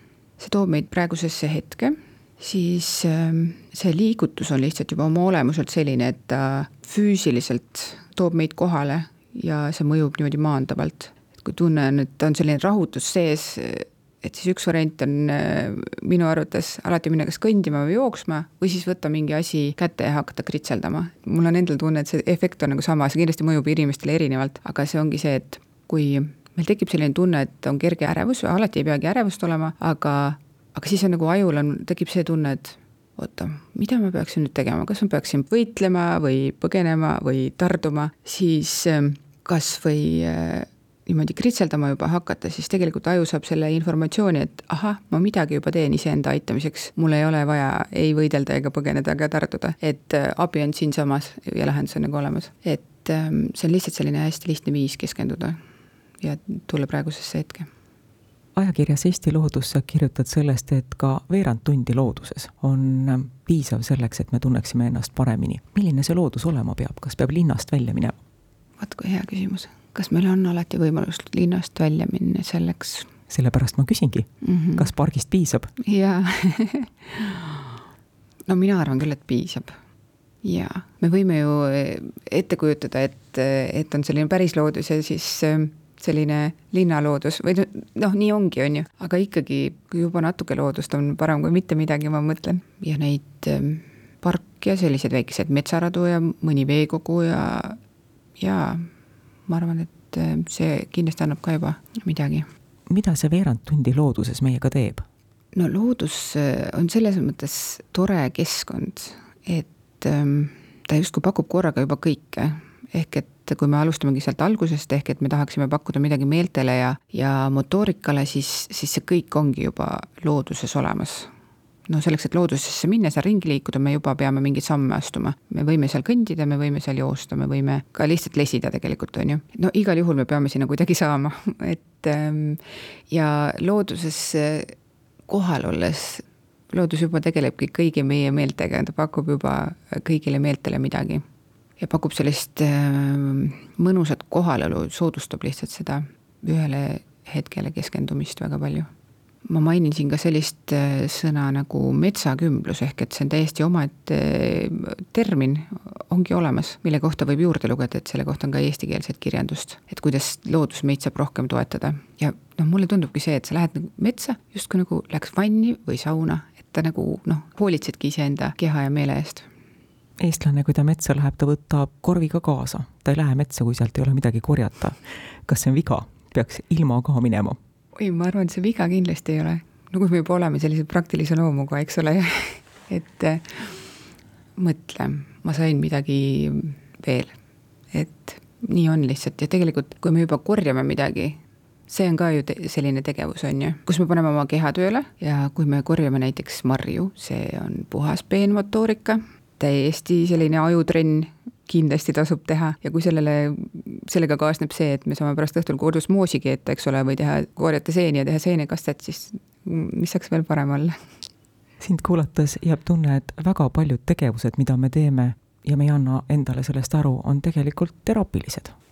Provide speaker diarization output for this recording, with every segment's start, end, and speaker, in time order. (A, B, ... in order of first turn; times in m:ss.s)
0:00.4-0:55.6 A
0:56.2-0:57.7 A
0:58.6-1:08.2 B
1:08.8-1:13.1 A
1:13.3-1:15.7 B
1:14.4-1:14.9 A
1:15.8-1:17.7 A
1:18.5-1:19.8 A
1:20.4-1:37.8 A
1:38.4-1:38.9 A
1:39.5-1:42.5 A
1:42.9-1:45.0 B
1:45.5-2:01.3 A
2:01.9-2:14.7 A
2:15.3-2:21.2 A
2:21.8-2:28.9 A
2:29.4-2:49.5 A
2:50.2-2:57.6 B
2:58.0-3:03.8 A
3:04.6-3:07.3 A
3:07.9-3:31.0 A
3:31.8-3:38.7 B